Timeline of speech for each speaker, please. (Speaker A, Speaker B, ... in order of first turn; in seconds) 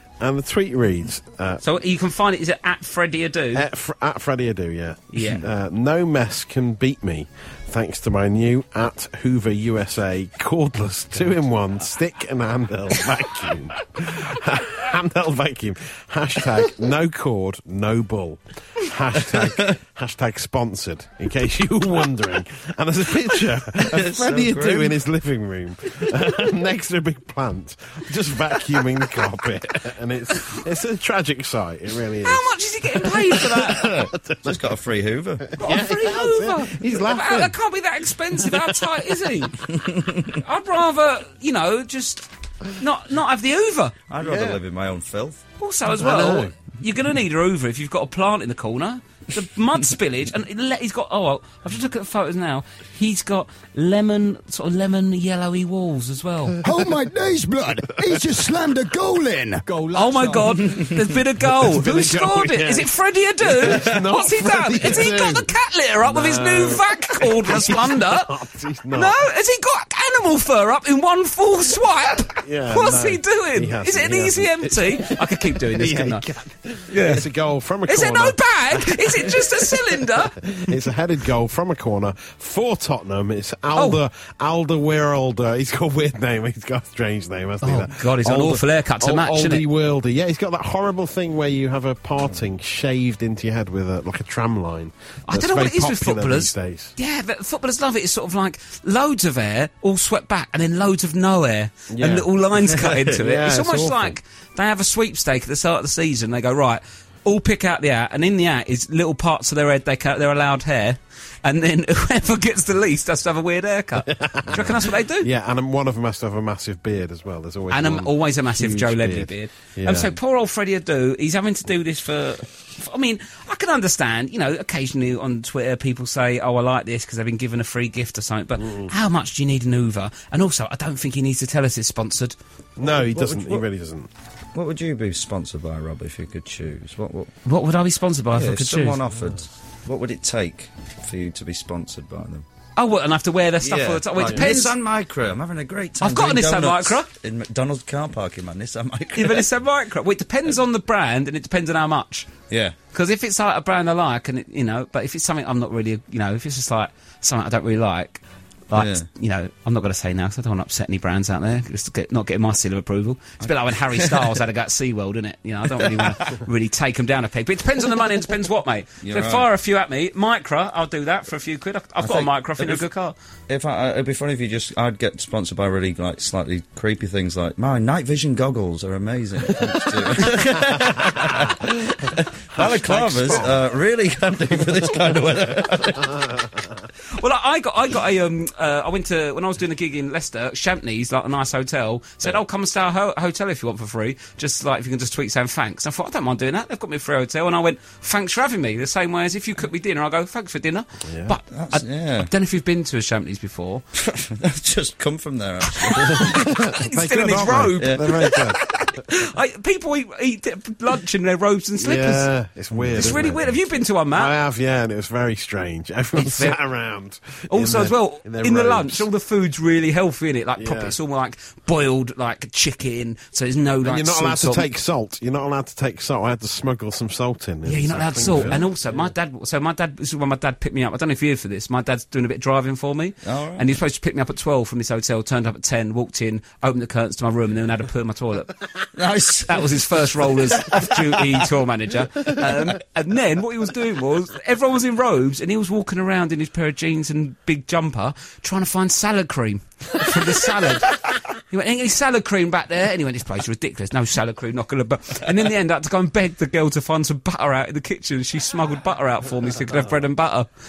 Speaker A: 0.2-1.6, 3.5-34.6, 35.5-37.5, 38.4-38.8, 44.2-44.6, 45.9-46.5, 61.5-65.5, 66.0-69.2, 72.4-96.9, 101.9-104.2, 114.1-120.1, 132.8-134.1, 144.2-144.5, 181.0-181.5, 182.5-183.6, 201.0-201.4, 205.9-208.7, 211.8-219.1, 220.6-221.0, 223.8-228.7
Speaker B: 1.6-3.6, 5.1-5.4, 32.2-33.9, 35.6-39.6, 40.4-44.0, 45.6-56.6, 59.9-68.3, 68.9-76.3, 76.9-77.3, 77.9-80.4, 83.7-84.0, 87.6-89.6, 95.3-115.3, 117.7-132.4, 137.4-139.0, 142.8-144.7, 146.0-147.1, 149.1-152.3, 152.9-173.2, 187.2-203.8, 205.6-212.3, 212.9-214.3, 216.2-216.6, 217.5-224.7, 227.7-238.6, 239.5-251.0, 251.5-260.5
Speaker C: 19.3-19.7, 23.8-25.0, 33.8-35.6, 39.6-40.4, 44.1-45.5, 132.8-133.7, 134.5-137.3, 138.3-142.4, 143.6-149.5, 152.5-152.7, 158.7-159.1, 163.4-164.4, 165.7-166.4, 169.0-169.5, 172.0-172.9, 173.5-186.3, 201.5-202.3, 203.9-206.5, 207.8-208.0, 233.2-233.8, 239.0-241.5
Speaker D: 56.6-60.8